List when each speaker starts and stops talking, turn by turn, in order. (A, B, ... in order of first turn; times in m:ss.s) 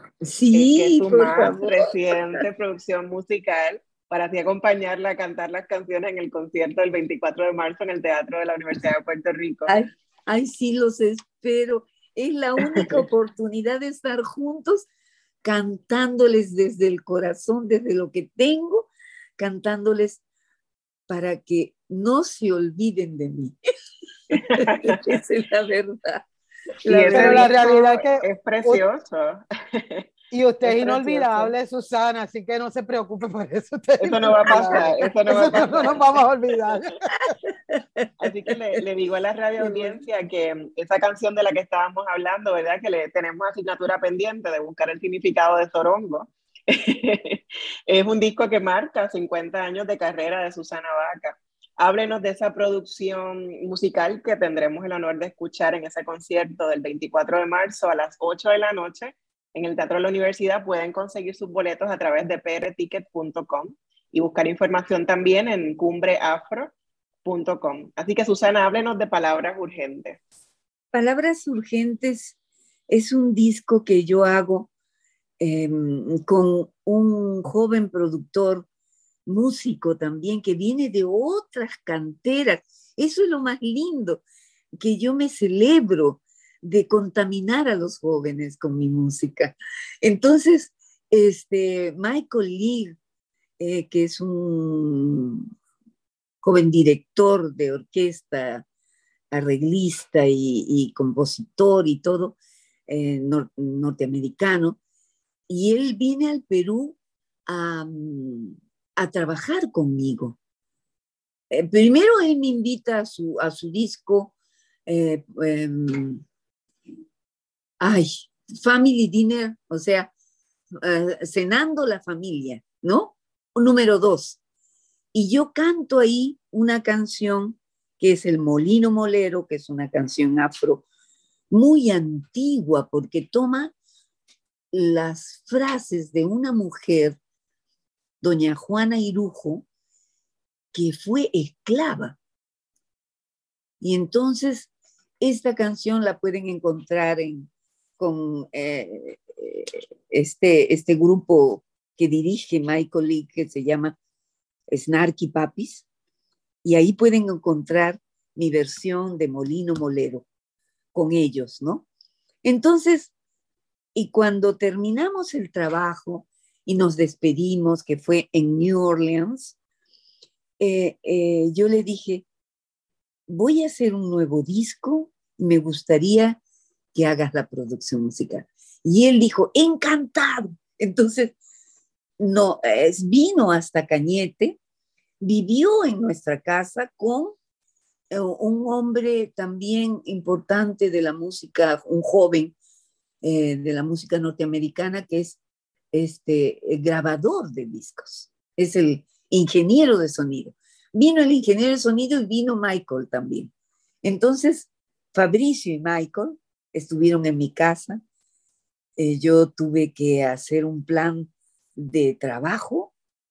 0:00.2-0:02.4 A
0:00.5-0:09.7 B
0:09.7-0:14.9 A
0:15.4-0:20.2 A
0:21.1-0:23.6 A
0:24.3-0:26.3 A
0:24.3-0:25.0 B
0:26.8-0:27.5 A
0:26.8-0:30.0 B
0:27.1-0:28.8 C
0:30.3-0:37.4 C
0:30.6-0:31.5 B
0:34.0-0:36.2 B
0:34.5-0:35.6 A
0:37.7-0:38.6 A
0:38.2-1:06.7 B
1:07.2-1:10.2 B
1:10.9-1:12.4 A
1:12.9-1:14.7 A
1:15.4-1:18.7 A
1:19.3-1:24.2 A
1:24.8-1:33.0 A
1:33.6-1:35.5 A
1:36.4-1:38.6 A
1:39.3-1:44.8 A
1:45.5-1:50.4 A
1:51.5-1:54.3 A
1:54.9-1:56.2 A
1:57.8-2:00.1 A
2:00.8-2:04.4 A
2:05.1-2:10.8 A
2:11.5-2:13.7 A
2:14.7-2:17.2 A
2:18.2-2:19.7 A
2:20.7-2:22.2 A
2:23.8-2:34.0 A
2:34.7-2:35.9 A
2:36.6-2:40.3 A
2:40.9-2:41.9 A
2:42.4-2:43.1 A
2:44.0-2:49.6 A
2:50.6-2:52.3 A
2:53.3-2:56.4 A
2:56.9-3:01.4 A
3:02.2-3:04.6 A
3:05.2-3:07.4 A
3:08.1-3:12.6 A
3:13.2-3:15.4 A
3:15.9-3:23.5 A
3:24.0-3:28.0 A
3:29.0-3:32.9 A